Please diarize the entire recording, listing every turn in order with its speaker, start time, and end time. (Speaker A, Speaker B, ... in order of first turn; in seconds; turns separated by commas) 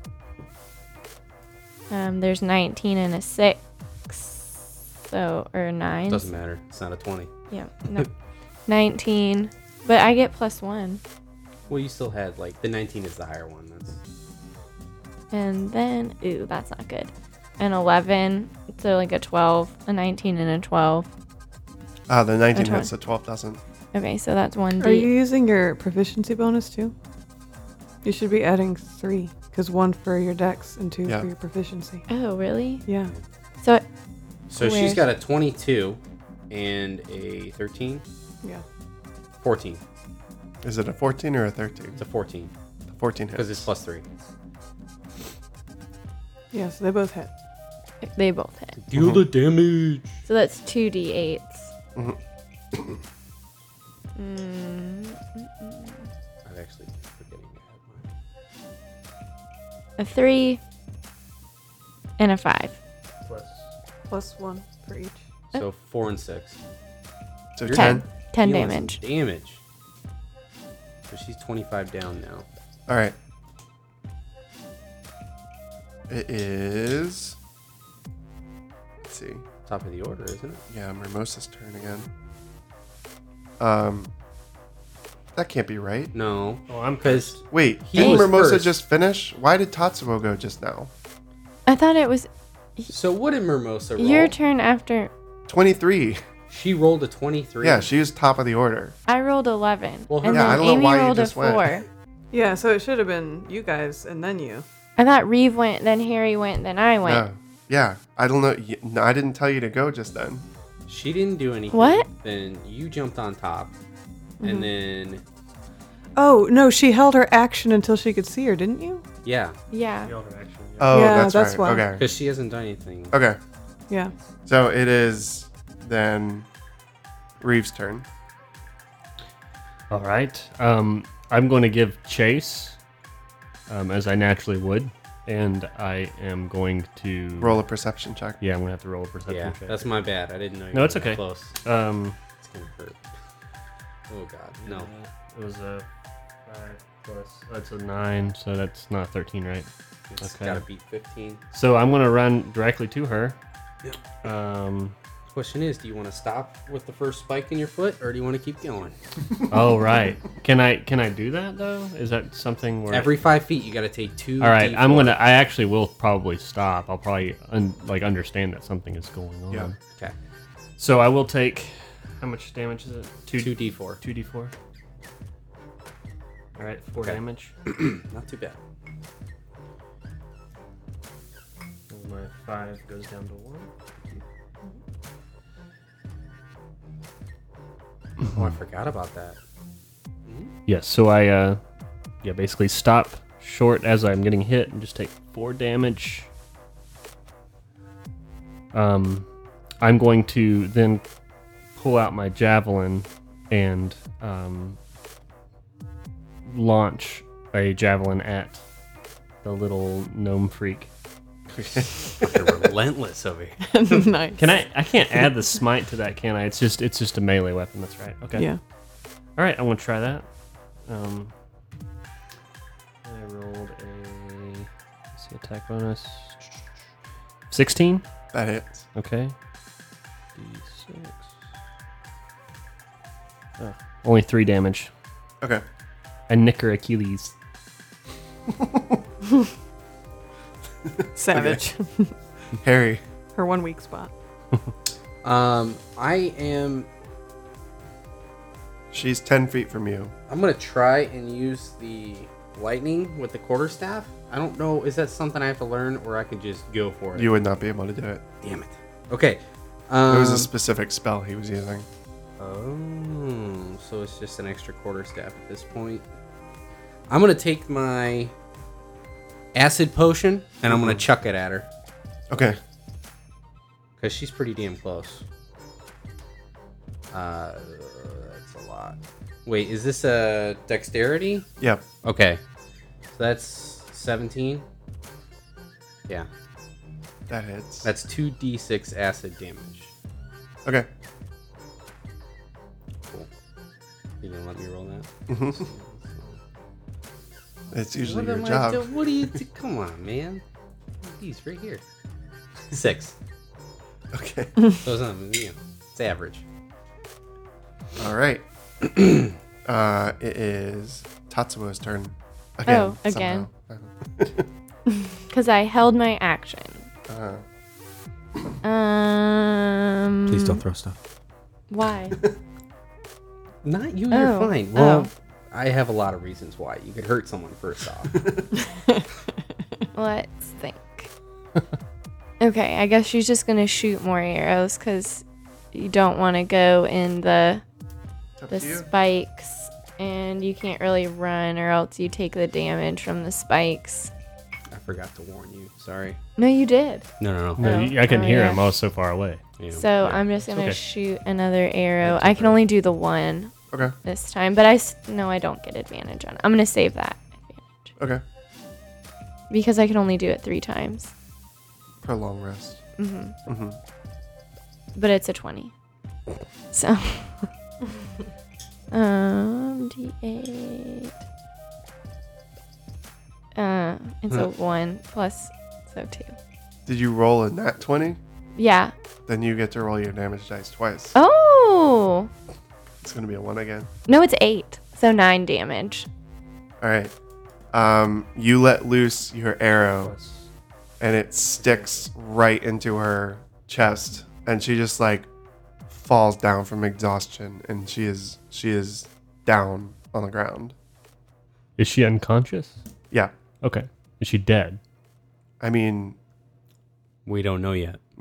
Speaker A: 1.9-6.3, Speaker B: 6.1-7.3, Speaker A: 7.5-8.1, Speaker A: 8.7-11.0, Speaker B: 11.7-14.0, Speaker A: 15.3-21.1, Speaker C: 22.1-23.6, Speaker A: 22.5-22.9, Speaker A: 23.9-25.1, Speaker D: 24.8-26.9, Speaker D: 28.0-32.0, Speaker A: 32.1-32.8, Speaker D: 32.9-33.1, Speaker B: 34.5-38.0, Speaker A: 34.5-35.1, Speaker B: 39.4-39.8, Speaker C: 40.6-42.0, Speaker B: 42.0-42.5, Speaker C: 42.9-43.6, Speaker B: 43.3-44.0, Speaker D: 46.5-47.3, Speaker A: 48.0-48.8, Speaker B: 48.8-50.2, Speaker C: 48.9-49.2, Speaker A: 50.3-51.7, Speaker C: 52.7-53.0, Speaker A: 54.1-56.1, Speaker B: 56.4-58.1, Speaker A: 60.0-60.6, Speaker A: 62.2-62.8, Speaker E: 63.2-63.7, Speaker D: 64.1-65.2, Speaker B: 65.5-66.6, Speaker C: 67.5-68.0, Speaker B: 67.6-69.6, Speaker A: 67.7-69.0, Speaker B: 71.1-72.5, Speaker C: 72.9-73.1, Speaker C: 76.1-77.4, Speaker C: 79.0-79.4, Speaker B: 79.7-80.6, Speaker C: 80.7-82.1, Speaker C: 83.6-84.1, Speaker C: 85.3-86.1, Speaker B: 86.1-88.8, Speaker E: 86.7-87.4, Speaker C: 87.5-90.9, Speaker A: 91.7-92.9, Speaker B: 92.9-94.3, Speaker A: 94.0-95.1, Speaker C: 95.5-96.2, Speaker B: 96.5-97.9, Speaker C: 97.6-99.0, Speaker A: 99.1-101.8, Speaker B: 100.1-100.7, Speaker C: 100.3-101.8, Speaker D: 102.3-104.6, Speaker A: 105.0-107.2, Speaker C: 107.0-110.5, Speaker B: 110.9-113.7, Speaker A: 111.7-112.1, Speaker D: 114.4-114.7, Speaker B: 114.4-115.2, Speaker D: 116.2-119.0, Speaker B: 119.2-119.6, Speaker A: 119.7-120.1, Speaker E: 120.0-121.1, Speaker C: 120.8-122.0, Speaker D: 120.9-121.9, Speaker B: 122.0-123.2, Speaker C: 123.1-123.4, Speaker C: 124.5-126.5, Speaker C: 127.4-128.1, Speaker E: 129.9-132.8, Speaker E: 133.7-137.6, Speaker C: 137.4-138.4, Speaker E: 138.4-139.9, Speaker B: 139.3-141.6, Speaker E: 140.7-142.2, Speaker B: 142.4-143.1, Speaker B: 144.1-144.9, Speaker E: 144.6-145.8, Speaker E: 146.4-149.7, Speaker B: 150.1-151.4, Speaker E: 150.2-150.6, Speaker E: 151.5-153.4, Speaker E: 154.2-154.9, Speaker B: 155.3-158.9, Speaker E: 159.5-163.2, Speaker B: 162.9-165.2, Speaker E: 164.4-169.8, Speaker E: 170.8-174.5, Speaker B: 173.3-174.0, Speaker E: 176.6-177.5, Speaker B: 177.0-178.6, Speaker E: 181.9-184.2, Speaker B: 188.2-189.4, Speaker B: 190.2-190.5, Speaker E: 190.7-191.6, Speaker E: 192.2-196.3, Speaker E: 198.7-199.3, Speaker E: 199.8-201.0, Speaker E: 201.7-204.8, Speaker E: 206.4-208.6, Speaker E: 209.4-210.9, Speaker C: 211.5-212.5, Speaker B: 212.2-214.1, Speaker D: 213.7-214.4, Speaker E: 214.4-218.5, Speaker D: 218.3-218.6, Speaker E: 219.4-220.2, Speaker E: 220.9-221.3, Speaker E: 223.0-226.4, Speaker E: 227.5-228.0, Speaker C: 228.3-228.9, Speaker E: 228.9-229.3, Speaker E: 230.3-231.3, Speaker E: 233.6-234.9, Speaker E: 236.3-237.3, Speaker C: 238.5-239.0, Speaker C: 240.8-241.6, Speaker D: 241.2-242.1, Speaker C: 242.6-243.0, Speaker D: 243.3-244.1, Speaker B: 245.2-246.9, Speaker C: 248.9-250.1, Speaker B: 250.3-257.3, Speaker C: 257.1-258.2, Speaker B: 258.4-260.5, Speaker C: 260.1-261.9, Speaker B: 262.4-266.1, Speaker B: 267.1-268.3, Speaker B: 269.5-271.7, Speaker C: 270.7-271.0, Speaker C: 272.3-272.6, Speaker B: 274.0-275.2, Speaker B: 277.1-281.5, Speaker B: 282.0-282.4, Speaker B: 283.1-284.6, Speaker C: 287.3-287.9, Speaker B: 287.8-289.9, Speaker B: 294.2-296.4, Speaker C: 295.3-295.6, Speaker C: 297.7-299.4, Speaker B: 297.9-300.4, Speaker B: 301.0-301.8, Speaker B: 302.7-303.1, Speaker C: 304.1-304.6, Speaker B: 304.7-306.4, Speaker C: 308.0-308.4, Speaker C: 309.6-314.5, Speaker A: 312.6-313.5, Speaker A: 315.3-316.9, Speaker C: 317.1-317.4, Speaker A: 318.6-320.6, Speaker B: 320.2-321.0, Speaker A: 321.7-322.2, Speaker B: 323.6-328.4, Speaker A: 324.1-325.1, Speaker A: 329.9-331.1, Speaker A: 332.4-337.6, Speaker C: 338.4-338.9, Speaker A: 338.5-344.1, Speaker B: 344.7-346.2, Speaker A: 346.4-348.6, Speaker B: 347.2-347.7, Speaker E: 347.6-349.4, Speaker B: 349.6-350.3, Speaker A: 349.7-357.9, Speaker E: 350.5-350.8, Speaker B: 352.0-352.6, Speaker A: 359.5-361.1, Speaker C: 362.0-362.8, Speaker A: 363.0-363.4, Speaker C: 363.5-363.8, Speaker A: 364.9-365.7, Speaker A: 366.7-367.5, Speaker A: 368.9-371.1, Speaker A: 373.5-376.3, Speaker C: 376.9-378.2, Speaker A: 378.6-378.9, Speaker C: 379.3-381.1, Speaker A: 381.1-382.3, Speaker C: 383.0-383.9, Speaker A: 384.1-386.1, Speaker C: 386.8-387.1, Speaker C: 387.7-390.1, Speaker E: 390.0-390.5, Speaker C: 391.0-395.3, Speaker C: 395.9-400.8, Speaker E: 401.8-402.8, Speaker E: 403.6-404.8, Speaker C: 405.6-406.2, Speaker B: 407.2-408.0